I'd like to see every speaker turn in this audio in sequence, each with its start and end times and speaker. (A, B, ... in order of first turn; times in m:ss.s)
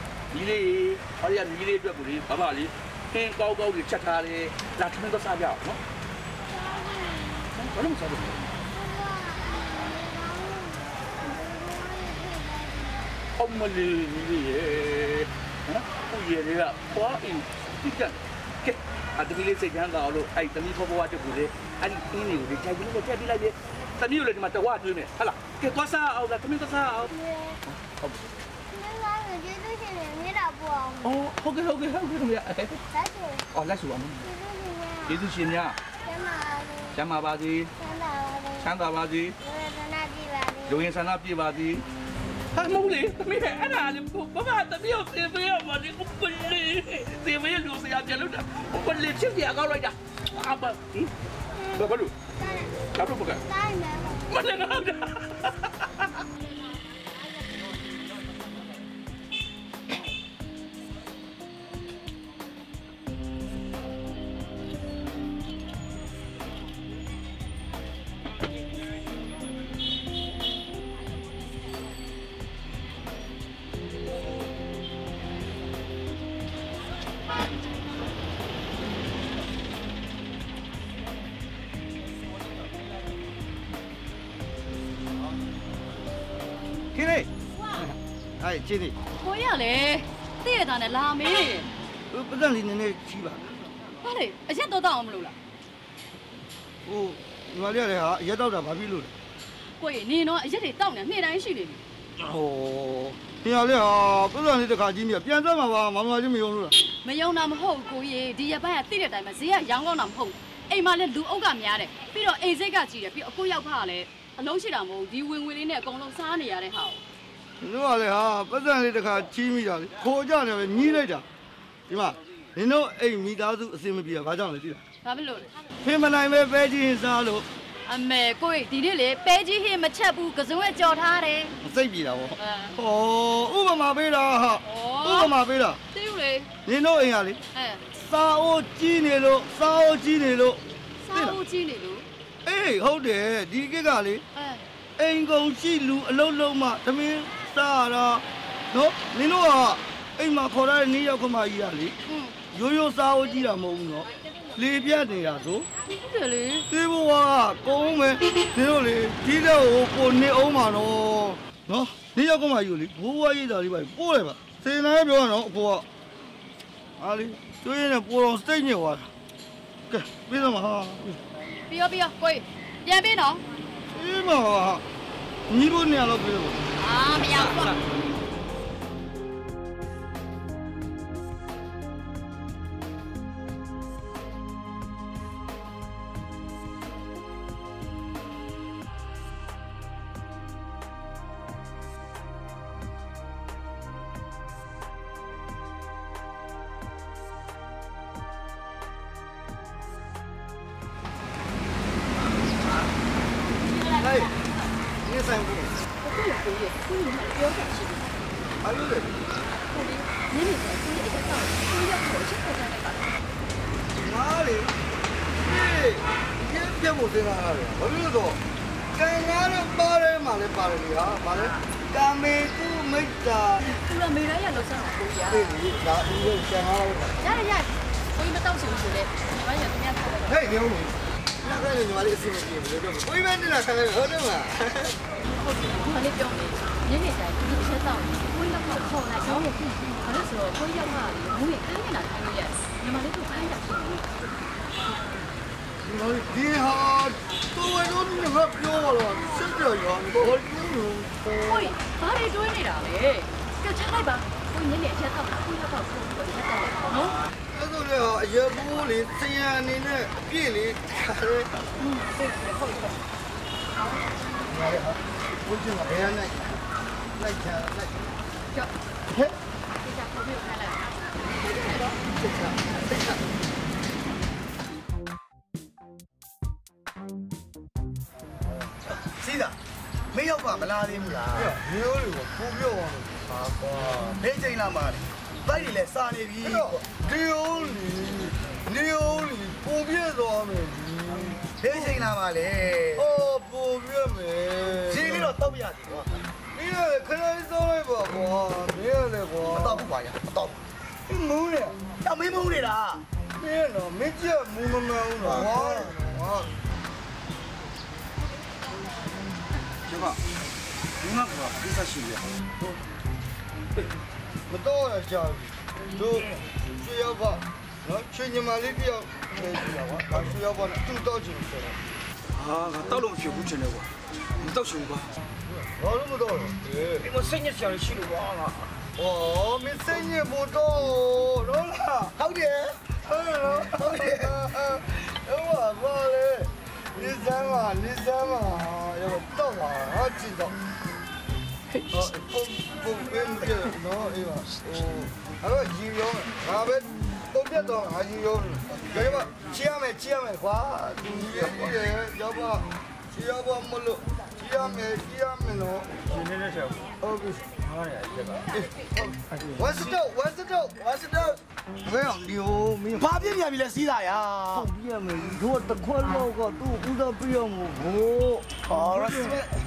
0:00.3-0:05.8 A
0:06.5-0:07.5 B
0:07.5-0:08.6 A
0:08.7-0:13.2 B
0:13.4-0:27.1 A
0:27.1-0:27.6 B
0:27.7-0:28.2 A
0:28.7-0:31.2 B
0:31.0-0:32.8 A
0:32.9-0:33.4 B
0:33.5-0:34.3 A
0:34.2-0:35.2 B
0:35.1-0:35.8 A
0:36.0-0:37.0 B
0:36.9-0:37.7 A
0:37.8-0:38.7 B
0:38.6-0:39.4 A
0:39.4-0:40.9 B
0:40.7-0:41.8 A
0:42.6-0:51.1 A
0:51.6-0:54.5 B
0:51.8-0:52.1 A
0:52.9-0:53.4 A
0:54.3-0:55.7 A
1:27.0-1:27.3 C
1:27.8-1:29.0 C
1:29.2-1:31.7 D
1:32.1-1:33.5 C
1:34.0-1:35.4 D
1:36.8-1:39.1 C
1:39.8-1:41.8 D
1:42.2-1:46.8 C
1:46.9-1:57.0 D
1:57.6-2:01.3 C
2:01.9-2:04.8 C
2:05.0-2:05.5 D
2:05.8-2:07.5 C
2:07.9-2:11.5 D
2:11.6-2:15.8 C
2:12.4-2:12.8 D
2:14.6-2:15.4 D
2:15.9-2:16.5 D
2:16.7-2:17.4 C
2:17.5-2:17.8 D
2:18.0-2:20.6 C
2:21.0-2:22.1 D
2:22.4-2:24.2 C
2:24.4-2:24.6 D
2:25.0-2:32.0 C
2:32.1-2:32.3 D
2:32.5-2:35.7 C
2:36.0-2:36.7 D
2:36.7-2:45.8 C
2:47.0-2:49.1 C
2:49.9-2:51.2 C
2:51.7-2:53.4 D
2:53.9-2:54.8 C
2:55.5-2:56.6 C
2:56.8-2:57.8 D
3:24.0-3:24.3 C
3:25.0-3:25.7 C
3:26.0-3:28.1 D
3:28.6-3:29.2 C
3:29.7-3:33.1 D
3:34.0-3:34.8 C
3:35.4-3:38.4 C
3:38.9-3:43.6 C
3:43.6-3:45.6 D
3:45.3-3:47.2 C
3:47.2-3:50.4 D
3:50.3-3:55.0 C
3:55.5-4:04.1 D
4:05.8-4:11.2 C
4:11.4-4:17.2 D
4:17.5-4:21.6 C
4:21.8-4:22.9 D
4:24.5-4:26.6 C
4:27.2-4:27.9 C
4:27.5-4:27.8 E
4:29.8-4:32.0 D
4:32.2-4:32.5 E
4:38.9-4:39.6 E
4:40.1-4:41.6 E
4:41.3-4:43.2 C
4:43.3-4:46.8 E
4:46.4-4:51.9 C
4:51.6-4:53.1 E
4:53.0-4:55.3 C
4:54.8-4:56.1 E
4:56.5-4:59.9 C
4:59.4-5:00.6 E
5:01.1-5:01.9 C
5:02.0-5:03.0 E
5:03.4-5:06.5 C
5:05.2-5:05.9 E
5:09.9-5:10.2 F
5:11.0-5:12.3 F
5:14.5-5:21.8 C
5:22.3-5:25.1 F
5:25.5-5:27.1 C
5:27.0-5:28.7 F
5:29.0-5:32.2 C
5:32.2-5:32.7 E
5:33.0-5:40.6 C
5:41.9-5:56.0 C
5:56.0-5:56.9 F
5:57.0-5:57.5 C
5:57.6-5:58.5 F
5:58.5-6:03.3 C
6:03.0-6:04.7 E
6:04.5-6:09.4 C
6:08.7-6:09.5 E